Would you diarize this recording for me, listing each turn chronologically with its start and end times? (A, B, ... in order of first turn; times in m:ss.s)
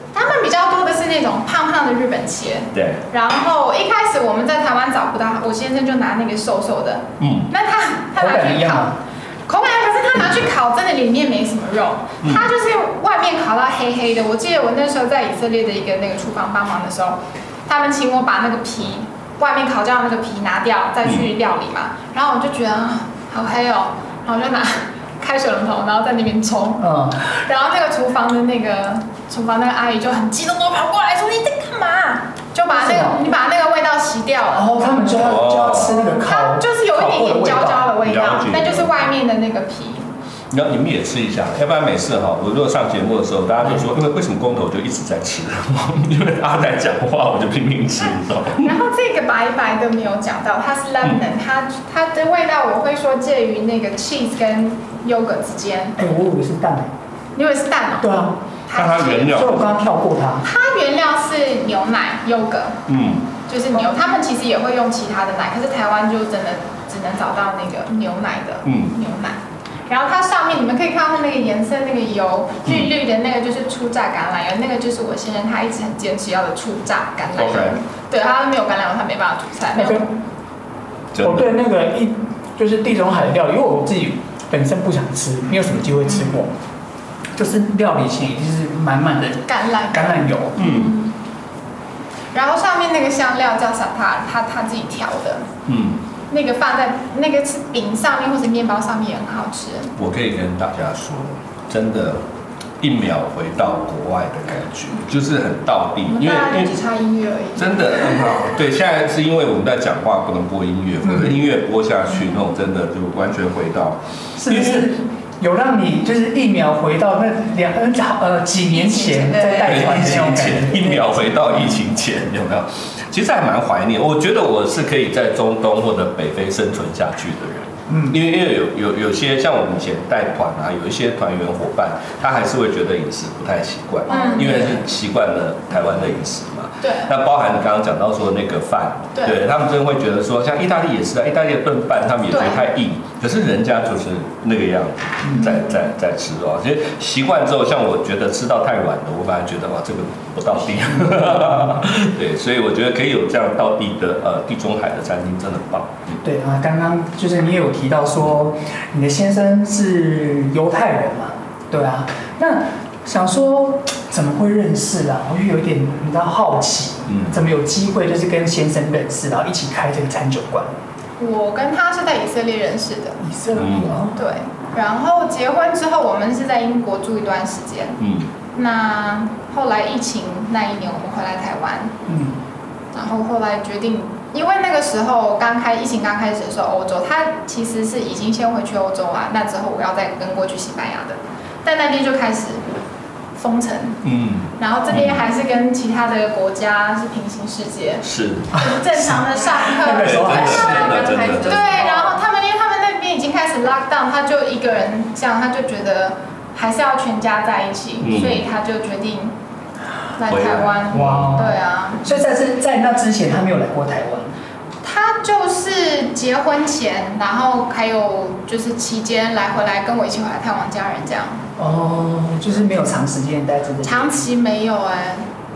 0:00.1-0:08.9 A
0:02.7-0:03.0 B
0:07.2-0:07.5 B
0:08.2-0:09.0 C
0:09.5-0:35.0 A
0:12.2-0:12.5 B
0:26.8-0:27.2 C
0:32.7-0:33.2 C
0:34.5-0:37.9 C
0:35.2-0:36.0 B
0:35.7-0:40.1 A
0:38.0-0:39.0 B
0:40.5-0:48.8 B
0:48.6-0:56.0 A
0:56.0-0:56.9 C
0:57.4-0:59.5 A
0:58.0-0:58.4 C
0:58.8-0:59.7 B
0:59.3-1:00.5 C
1:00.4-1:02.8 A
1:02.9-1:03.3 B
1:03.5-1:20.2 A
1:08.6-1:08.9 B
1:17.4-1:17.8 B
1:19.8-1:20.1 C
1:21.1-1:21.5 B
1:21.2-1:26.6 C
1:27.4-1:30.9 C
1:29.4-1:31.2 A
1:30.6-1:30.9 B
1:32.3-1:35.5 A
1:35.7-1:36.0 B
1:36.3-1:39.9 A
1:40.0-1:42.2 B
1:42.8-1:46.8 B
1:46.1-1:48.6 A
1:47.6-1:54.9 B
1:51.0-1:51.3 C
1:54.4-2:01.2 C
1:59.4-2:36.1 B
2:07.9-2:08.2 C
2:14.1-2:14.8 A
2:16.8-2:17.1 A
2:19.2-2:19.4 A
2:22.3-2:22.6 A
2:31.0-2:31.7 C
2:36.2-2:50.7 C
2:47.1-2:47.4 B
2:51.2-2:53.2 A
2:53.2-2:54.2 C
2:53.6-2:54.0 B
2:54.2-2:58.0 A
2:58.0-2:58.3 B
2:58.5-3:02.0 A
3:02.1-3:02.4 C
3:02.9-3:12.6 A
3:13.4-3:14.0 A
3:14.0-3:15.2 B
3:14.6-3:29.4 A
3:18.0-3:18.6 B
3:18.6-3:21.4 C
3:19.8-3:21.9 B
3:28.0-3:28.4 B
3:30.2-3:32.1 A
3:30.3-3:31.4 B
3:30.9-3:34.3 C
3:34.8-3:41.5 A
3:41.6-3:44.3 C
3:43.8-3:45.3 A